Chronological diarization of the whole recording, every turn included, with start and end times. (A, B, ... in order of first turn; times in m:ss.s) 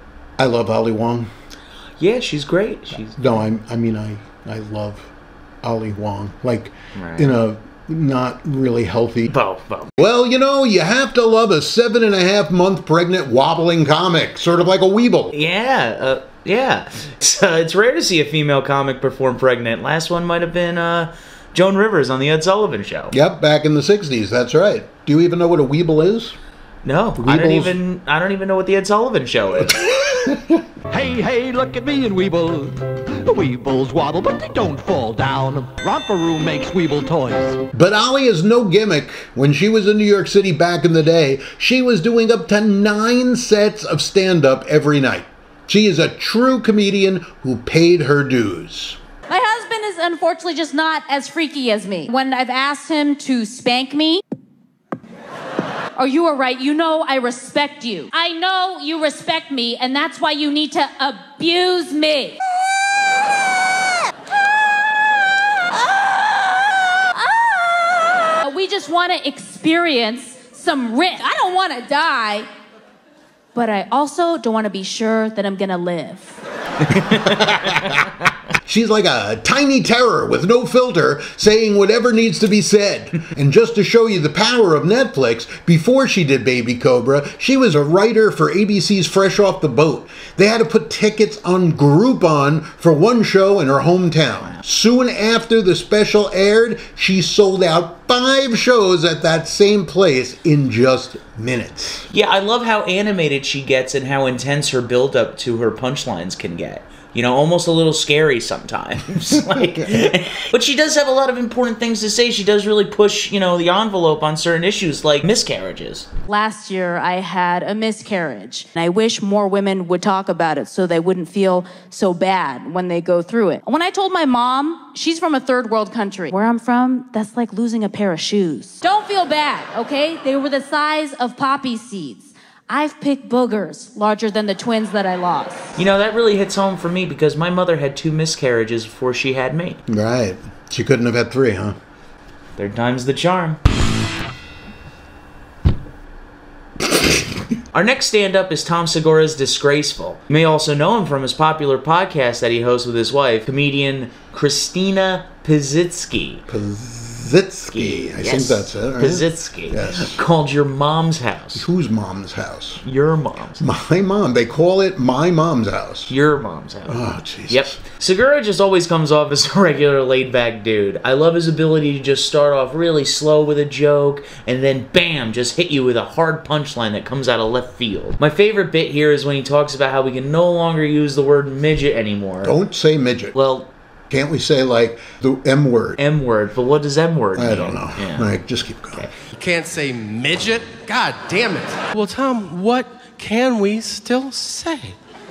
0:00.4-0:01.3 A
0:02.0-0:03.3 B
0:02.9-0:05.1 A
0:05.6-0:09.3 A
0:07.0-0:07.3 B
0:09.3-0:09.9 B
0:10.0-0:15.3 A
0:15.3-0:23.1 B
0:23.1-0:26.4 A
0:26.8-0:29.9 B
0:27.2-0:27.8 A
0:30.1-0:30.5 A
0:30.9-0:37.6 C
0:37.7-0:49.0 A
0:49.3-0:54.2 D
0:56.0-1:02.4 D
1:05.7-1:12.5 D
1:13.5-1:16.4 D
1:17.0-1:17.9 B
1:17.0-1:18.0 A
1:18.6-1:42.1 A
1:42.1-1:56.1 B
1:56.3-2:15.7 D
2:15.8-2:19.8 B
2:19.9-2:21.8 A
2:22.6-2:23.6 B
2:27.7-2:36.4 B
2:36.5-2:40.2 A
2:37.7-2:41.6 B
2:41.5-2:42.8 A
2:42.8-2:43.6 B
2:43.6-2:46.1 A
2:46.1-3:02.5 B
2:46.9-2:47.8 A
3:02.4-3:03.4 A
3:03.4-3:03.7 B
3:04.1-3:06.0 A
3:06.0-3:08.3 B
3:07.4-3:09.1 A
3:09.4-3:15.0 E